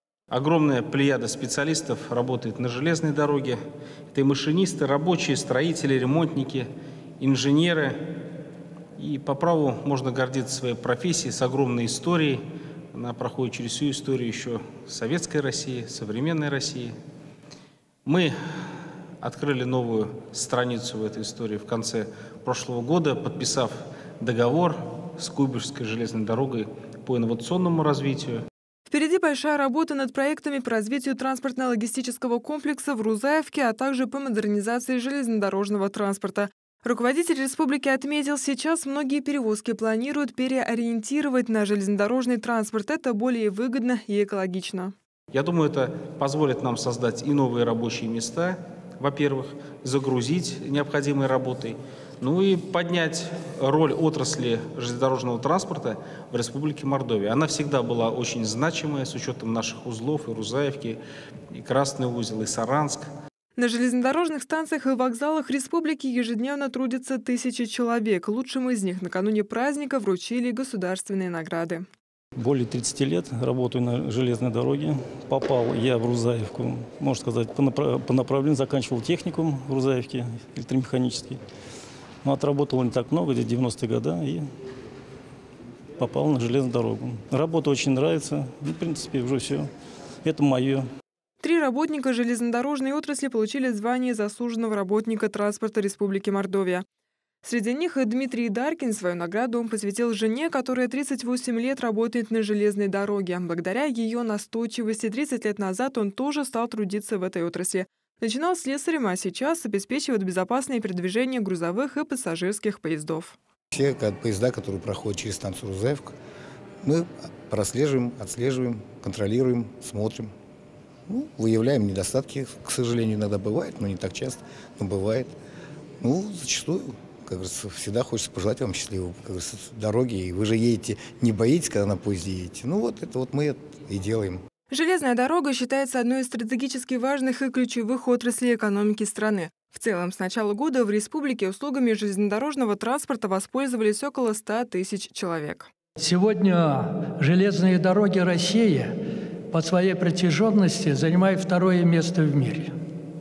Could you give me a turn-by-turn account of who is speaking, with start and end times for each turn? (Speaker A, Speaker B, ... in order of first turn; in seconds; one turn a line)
Speaker A: 0.3-3.6
Speaker A: 4.1-6.7
Speaker A: 7.2-8.2
Speaker A: 9.0-12.4
Speaker A: 12.9-16.9
Speaker A: 18.0-18.3
Speaker A: 19.2-28.4
Speaker B: 28.9-44.9
Speaker A: 45.3-61.0
Speaker A: 61.5-63.1
Speaker B: 63.5-71.8
Speaker C: 72.3-81.4
Speaker C: 82.2-84.5
Speaker C: 86.0-89.7
Speaker C: 90.2-90.8
Speaker B: 91.4-96.8
Speaker B: 97.4-113.3
Speaker D: 113.7-116.1
Speaker D: 116.8-120.3
Speaker D: 121.1-125.3
Speaker D: 126.0-134.4
Speaker B: 134.7-145.7
Speaker E: 146.0-148.9
Speaker E: 149.5-152.7